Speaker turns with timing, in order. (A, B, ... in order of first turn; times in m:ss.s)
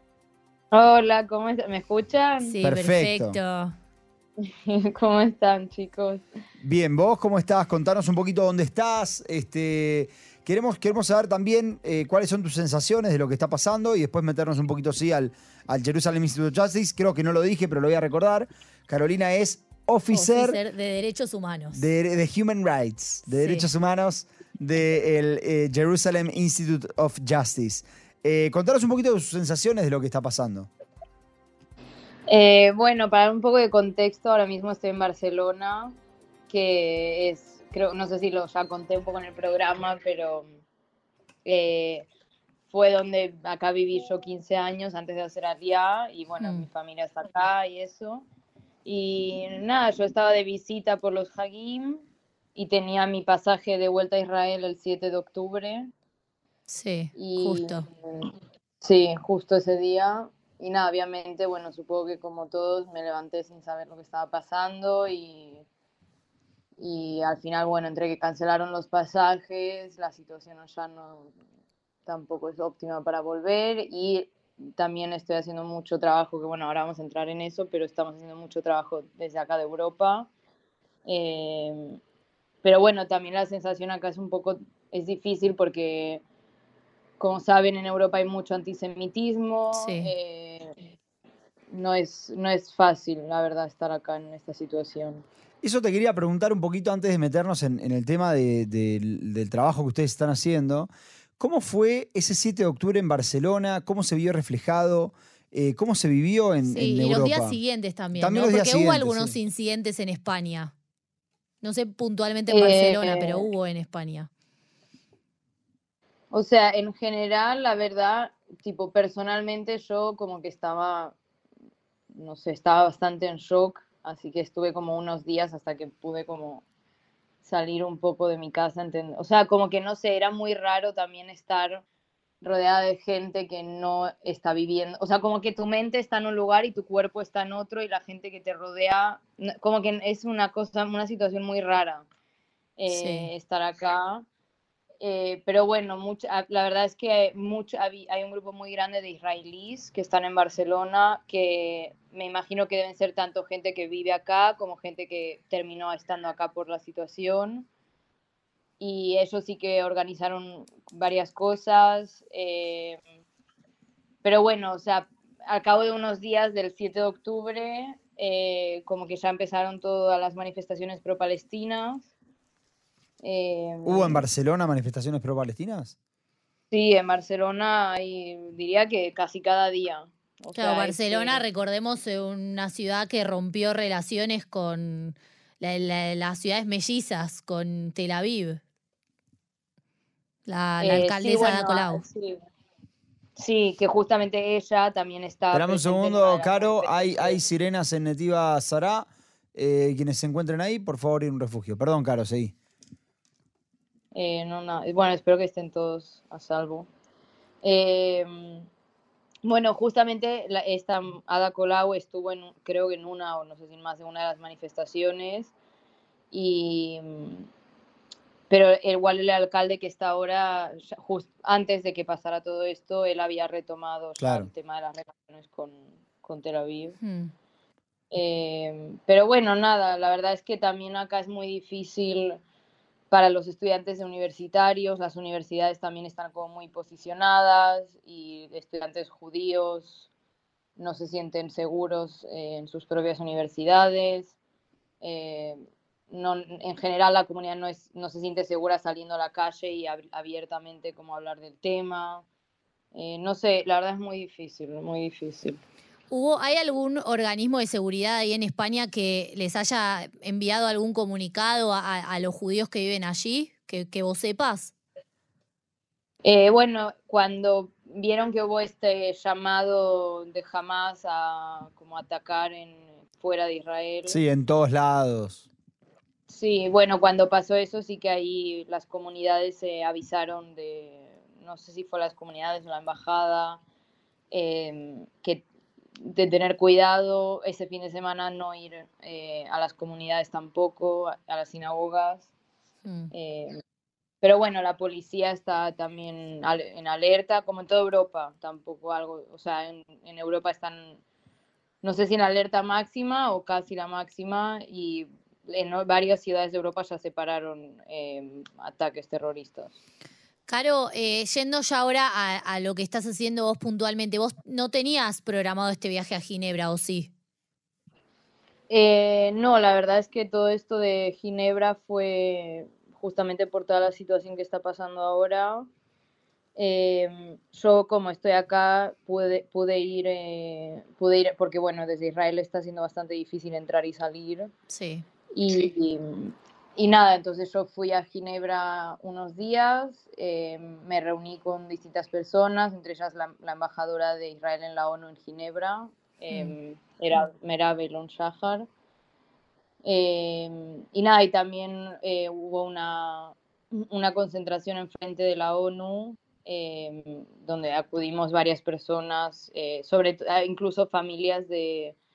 0:00.7-0:02.6 A
0:02.4-0:03.8 B
0:02.6-0:03.4 C
0:04.4-0:06.2 A
0:06.6-0:20.6 C
0:20.1-0:21.8 B
0:21.7-0:30.7 C
0:23.3-0:23.7 B
0:32.3-0:36.0 A
0:36.5-0:40.5 A
0:41.4-0:42.1 A
0:42.7-0:48.2 A
0:46.4-0:46.7 B
0:48.8-0:52.0 A
0:52.6-0:55.9 A
0:56.7-0:57.9 B
0:57.2-1:05.6 A
1:06.8-1:11.3 A
1:12.1-1:20.3 A
1:21.0-1:22.0 A
1:22.6-1:26.2 A
1:27.2-1:30.8 A
1:29.7-1:30.1 B
1:31.7-1:35.2 A
1:35.6-1:47.6 C
1:46.7-1:50.7 B
1:48.2-1:49.4 C
1:51.6-1:54.3 B
1:52.5-1:53.5 A
1:56.3-2:01.2 A
2:02.1-2:06.6 A
2:07.4-2:11.8 A
2:12.4-2:22.1 A
2:22.8-2:24.2 A
2:22.9-2:23.3 B
2:25.0-2:37.7 A
2:38.8-2:43.0 A
2:44.2-2:52.1 A
2:53.2-2:54.3 A
2:53.8-2:55.9 C
2:56.7-3:01.4 A
3:00.6-3:08.6 B
3:10.5-3:12.0 B
3:10.8-3:12.4 A
3:13.4-3:17.4 A
3:15.5-3:22.5 C
3:24.1-3:26.9 A
3:27.6-3:28.7 A
3:29.4-3:35.5 A
3:36.3-3:37.5 A
3:38.5-3:47.0 A
3:44.2-3:44.5 C
3:47.0-3:47.3 B
3:48.1-3:52.4 A
3:53.1-4:00.1 A
4:00.8-4:04.4 A
4:05.0-4:12.2 A
4:12.9-4:15.6 A
4:16.1-4:24.7 B
4:26.2-4:34.2 A
4:34.1-4:35.5 C
4:36.3-4:43.6 A
4:44.3-4:45.4 A
4:46.0-4:52.3 A
4:52.8-4:53.1 B
4:53.1-4:53.6 A
4:54.2-5:01.0 A
5:01.8-5:09.8 A
5:10.5-5:17.1 B
5:18.7-5:25.7 A
5:26.6-5:34.5 A
5:34.7-5:35.0 B
5:35.3-5:48.7 A
5:46.3-5:46.6 B
5:49.8-6:02.0 A